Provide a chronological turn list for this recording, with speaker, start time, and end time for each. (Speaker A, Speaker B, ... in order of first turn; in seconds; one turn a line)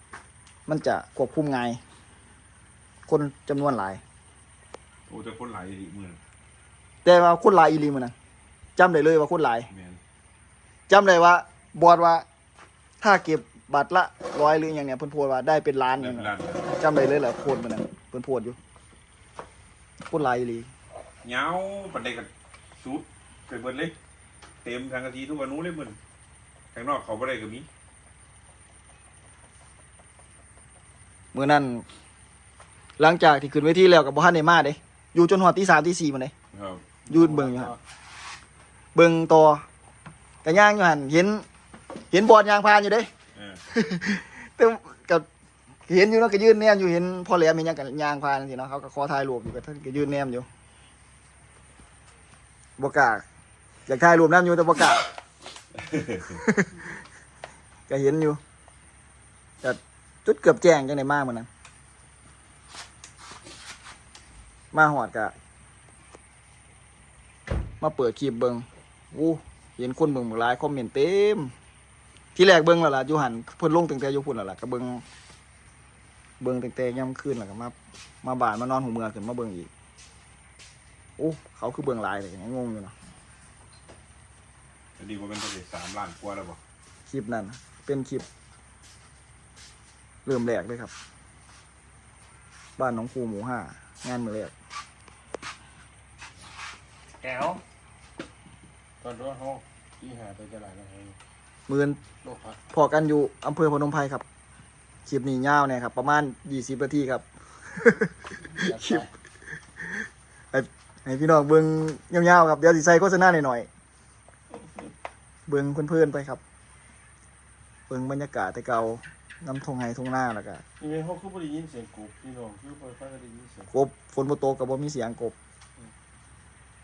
Speaker A: 0.7-1.8
Speaker A: 3.1-4.0
Speaker B: 5.1-6.2
Speaker A: 7.0-8.1
Speaker A: 8.8-9.7
Speaker B: 9.7-10.0
Speaker A: 10.9-12.3
Speaker A: 13.0-18.6
Speaker B: 15.9-16.7
Speaker A: 20.1-20.7
Speaker B: 21.2-23.9
Speaker B: 24.6-26.0
Speaker B: 26.7-27.7
Speaker A: 31.3-31.9
Speaker A: 33.0-36.3
Speaker B: 36.5-37.0
Speaker C: 37.1-37.8
Speaker A: 37.1-37.8
Speaker A: 39.0-39.6
Speaker A: 40.4-41.5
Speaker A: 42.1-43.1
Speaker B: 43.4-43.6
Speaker A: 43.7-45.3
Speaker A: 45.9-50.5
Speaker A: 52.8-53.2
Speaker A: 53.9-55.0
Speaker A: 56.3-56.7
Speaker A: 57.9-58.4
Speaker A: 59.6-61.5
Speaker A: 64.7-65.3
Speaker A: 67.8-71.5
Speaker A: 72.3-75.0
Speaker A: 76.4-79.7
Speaker A: 81.2-83.0
Speaker B: 85.0-86.6
Speaker A: 87.1-88.3
Speaker A: 90.3-90.9
Speaker A: 92.8-94.5
Speaker C: 97.2-97.6
Speaker C: 99.0-101.2
Speaker A: 101.7-102.0
Speaker C: 102.2-102.6
Speaker A: 102.7-104.2
Speaker A: 105.1-109.1
Speaker C: 108.5-109.1
Speaker A: 110.5-113.7
Speaker A: 115.5-116.4
Speaker A: 117.9-120.6
Speaker C: 120.8-123.7
Speaker A: 123.7-125.3